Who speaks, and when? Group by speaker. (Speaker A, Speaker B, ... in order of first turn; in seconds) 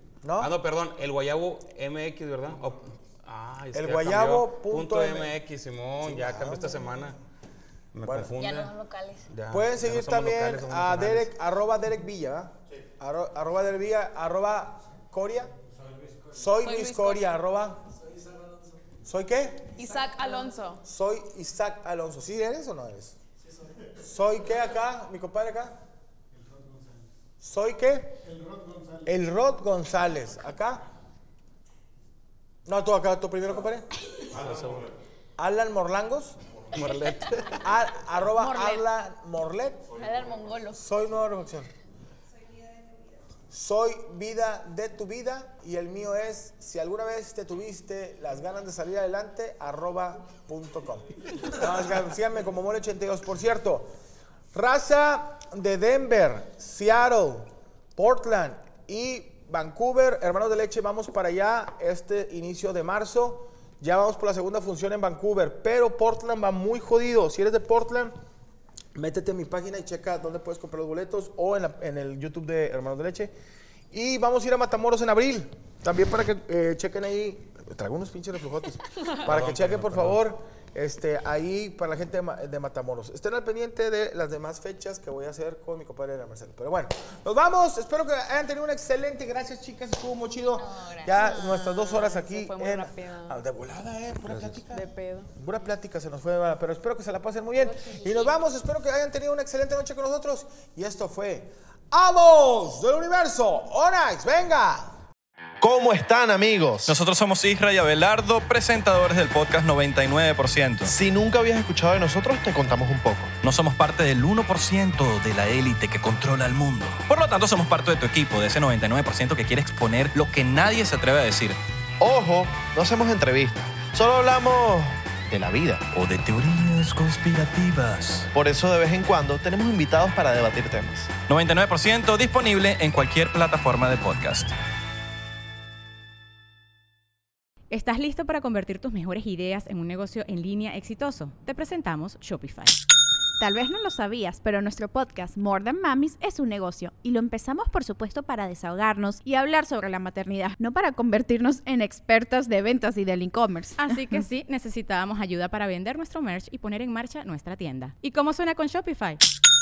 Speaker A: 0.2-0.5, 3.7-5.3, 6.0-7.2, 8.0-8.3, 9.5-15.5, 16.2-17.9, 19.0-19.9, 20.8-23.1, 23.9-25.8, 27.4-30.9, 32.6-33.9, 35.4-36.4, 37.6-39.9, 40.7-41.7, 43.5-53.9, 54.5-68.1, 68.9-73.3, 73.9-94.8, 95.3-105.0
Speaker B: 0.4-7.2, 7.9-8.7, 9.3-11.3, 34.3-34.9, 36.7-37.6, 79.2-80.2, 94.3-94.6
Speaker C: 8.4-9.3, 39.9-40.8, 90.5-91.3, 97.6-98.3
Speaker D: 16.6-17.3, 19.8-20.8, 38.4-38.8, 91.1-93.4, 94.7-95.3
Speaker E: 105.6-107.0, 110.8-113.3, 122.0-125.9, 128.3-131.1
Speaker F: 106.8-110.9, 113.4-121.6, 125.9-128.3, 131.3-134.5
Speaker G: 137.7-142.8, 153.8-159.2
Speaker H: 143.4-153.9